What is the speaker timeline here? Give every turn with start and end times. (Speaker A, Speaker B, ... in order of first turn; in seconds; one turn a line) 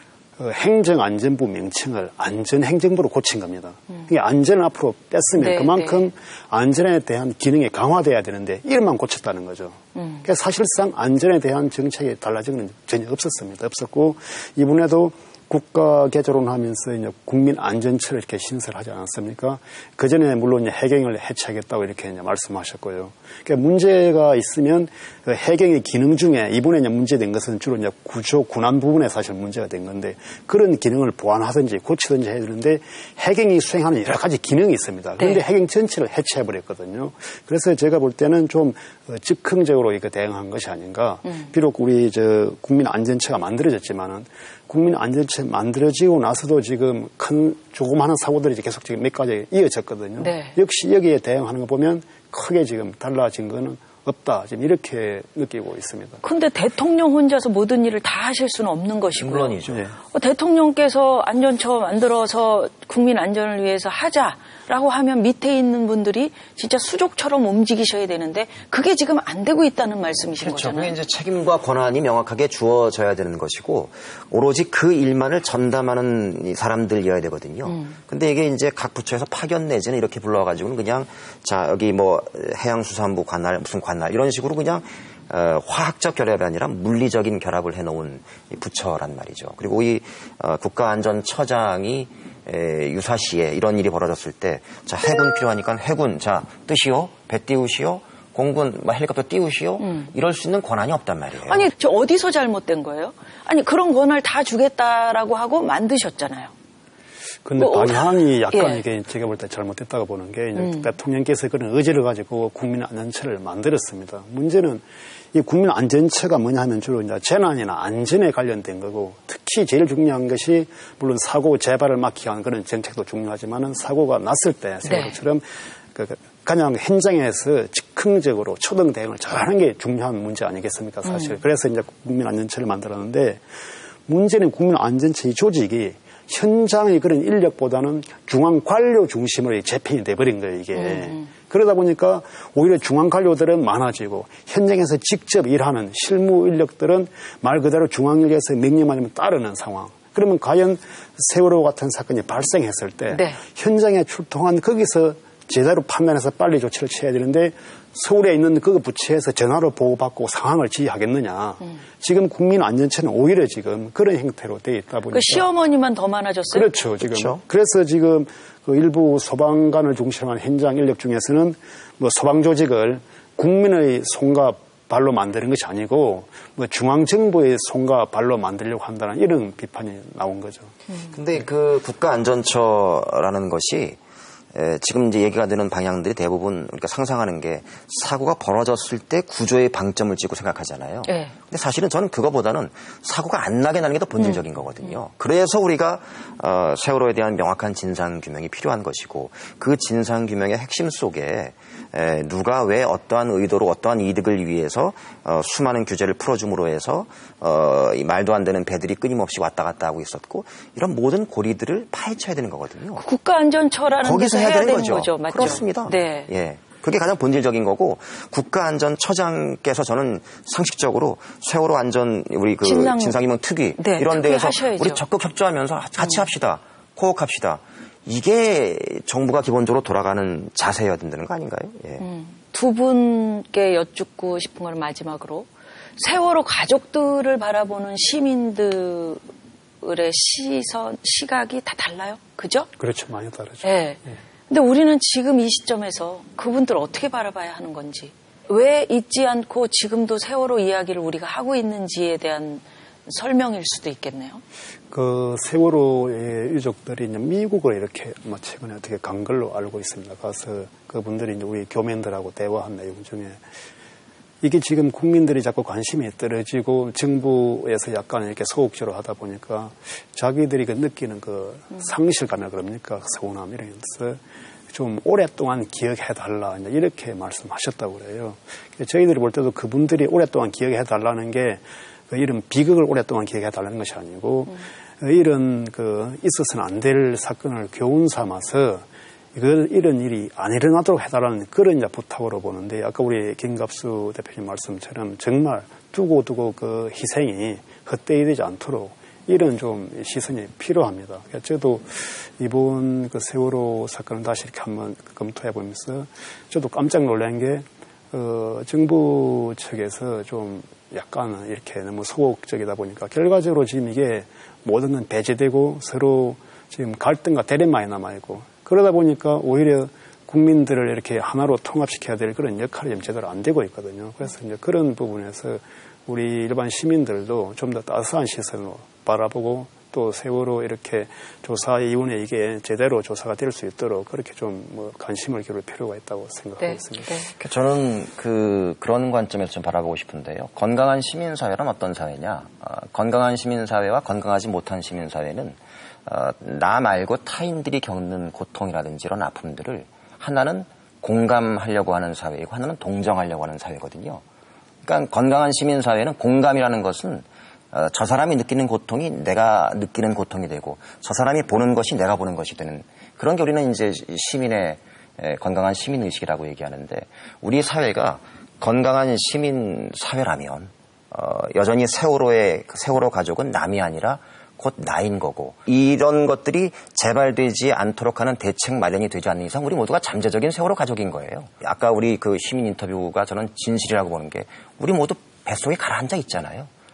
Speaker A: 0.4-56.2
Speaker B: 5.4-6.1
Speaker B: 9.9-10.2
Speaker B: 35.2-35.4
Speaker B: 50.2-50.5
Speaker B: 56.2-59.6
Speaker C: 59.1-59.8
Speaker A: 59.7-59.9
Speaker B: 60.1-70.9
Speaker C: 70.4-101.6
Speaker B: 77.7-78.0
Speaker B: 99.8-100.1
Speaker B: 101.5-106.5
Speaker A: 107.4-133.4
Speaker B: 107.6-108.8
Speaker B: 110.5-110.9
Speaker B: 124.8-125.2
Speaker B: 131.0-131.3
Speaker A: 134.1-165.5
Speaker B: 140.7-141.3
Speaker B: 153.1-153.4
Speaker B: 165.1-166.7
Speaker A: 166.5-180.7
Speaker C: 167.0-167.4
Speaker C: 181.1-184.0
Speaker C: 184.5-213.0
Speaker B: 191.1-191.3
Speaker B: 212.9-216.3
Speaker C: 214.0-232.0
Speaker B: 222.6-223.2
Speaker B: 223.8-225.0
Speaker B: 232.0-239.2
Speaker B: 239.8-242.7
Speaker A: 242.8-244.2
Speaker B: 243.6-254.4
Speaker A: 254.9-263.4
Speaker A: 264.4-274.2
Speaker A: 274.7-337.1
Speaker B: 336.6-337.3
Speaker C: 337.4-354.2
Speaker C: 354.8-386.7